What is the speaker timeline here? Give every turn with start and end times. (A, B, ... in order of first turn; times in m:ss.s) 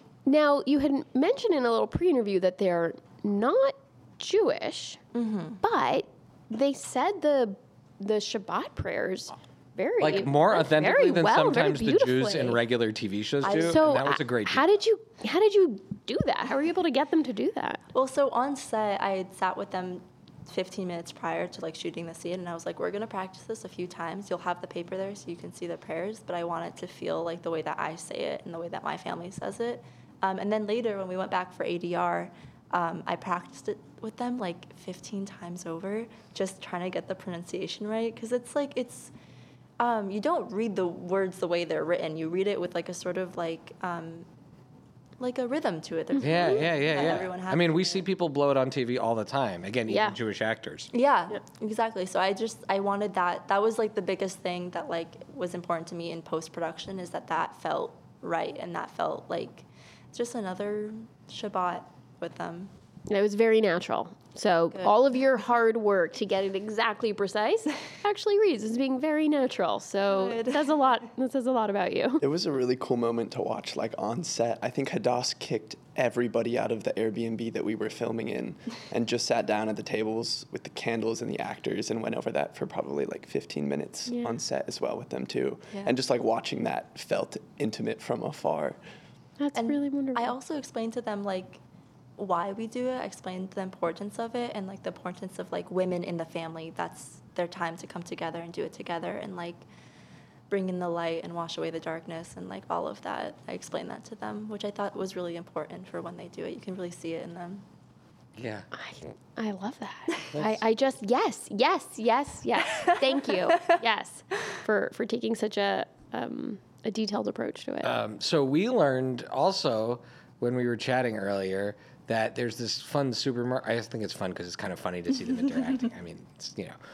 0:00.3-0:05.0 A
0:05.1-0:05.6 B
0:05.6-0:12.6 A
0:10.0-0:14.7 C
0:13.4-0:13.8 B
0:13.4-0:17.8 A
0:18.0-0:39.1 B
0:39.8-0:44.3 B
0:45.2-0:48.0 B
0:46.1-0:46.6 A
0:46.2-0:50.9 C
0:49.9-0:50.2 A
0:50.9-1:02.7 B
1:03.1-1:12.2 A
1:04.7-1:05.1 B
1:10.1-1:11.1 B
1:12.2-1:28.8 D
1:29.4-1:30.3 A
1:29.6-1:31.6 B
1:32.2-1:39.6 B
1:40.5-1:47.6 B
1:48.4-1:48.7 C
1:48.7-1:58.0 A
1:50.3-1:50.6 C
1:52.8-1:53.8 B
1:57.8-2:06.8 C